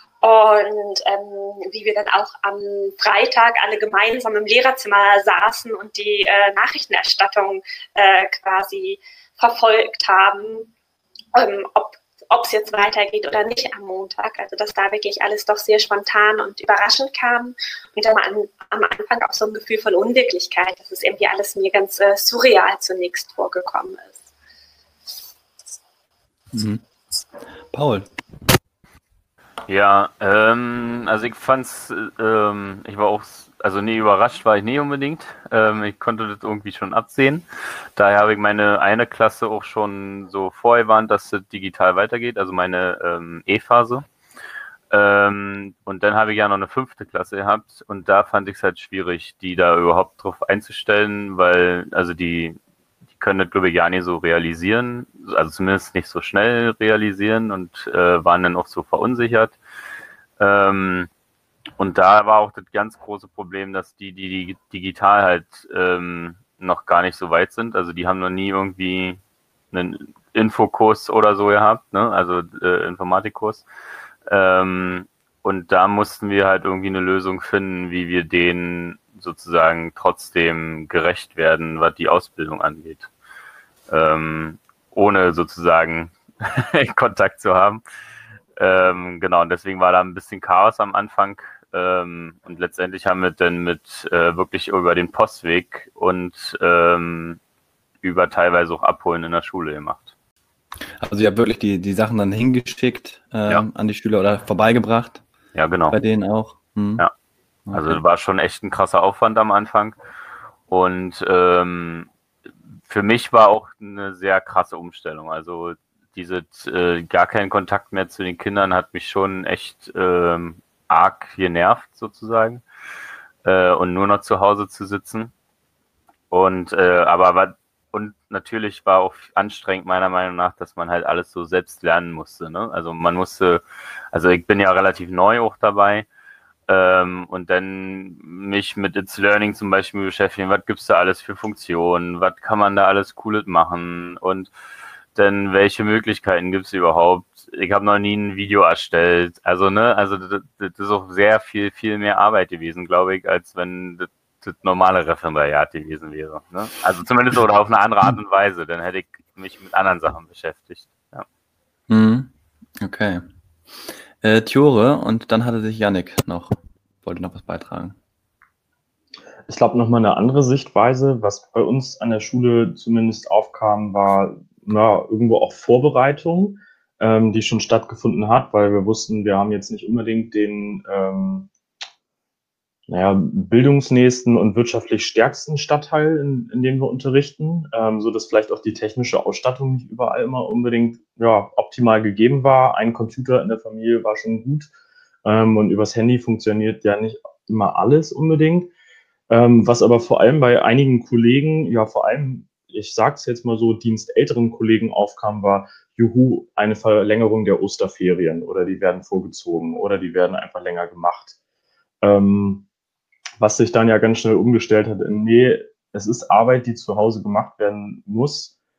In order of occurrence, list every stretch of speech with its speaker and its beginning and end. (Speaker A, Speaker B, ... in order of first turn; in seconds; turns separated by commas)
Speaker A: 0.2-10.7, Speaker A: 11.3-24.2, Speaker B: 26.5-26.8, Speaker B: 27.7-28.1, Speaker C: 29.7-37.5, Speaker C: 38.0-44.0, Speaker C: 44.9-52.6, Speaker C: 53.2-59.6, Speaker C: 60.4-61.1, Speaker C: 61.8-69.2, Speaker C: 69.7-73.6, Speaker C: 74.3-83.1, Speaker C: 83.9-87.8, Speaker C: 88.6-97.4, Speaker C: 98.0-100.1, Speaker B: 101.0-105.2, Speaker C: 105.5-106.0, Speaker B: 105.9-107.0, Speaker B: 107.7-108.0, Speaker C: 107.7-110.0, Speaker C: 110.7-112.1, Speaker C: 112.9-122.6, Speaker C: 123.4-125.3, Speaker C: 126.3-133.6, Speaker C: 134.1-136.1, Speaker C: 136.7-144.5, Speaker C: 145.2-161.3, Speaker B: 161.9-163.2, Speaker B: 164.2-168.0, Speaker D: 169.5-181.5, Speaker D: 182.9-194.7, Speaker D: 195.2-198.7, Speaker D: 199.3-211.4, Speaker D: 212.0-212.7, Speaker D: 213.4-218.5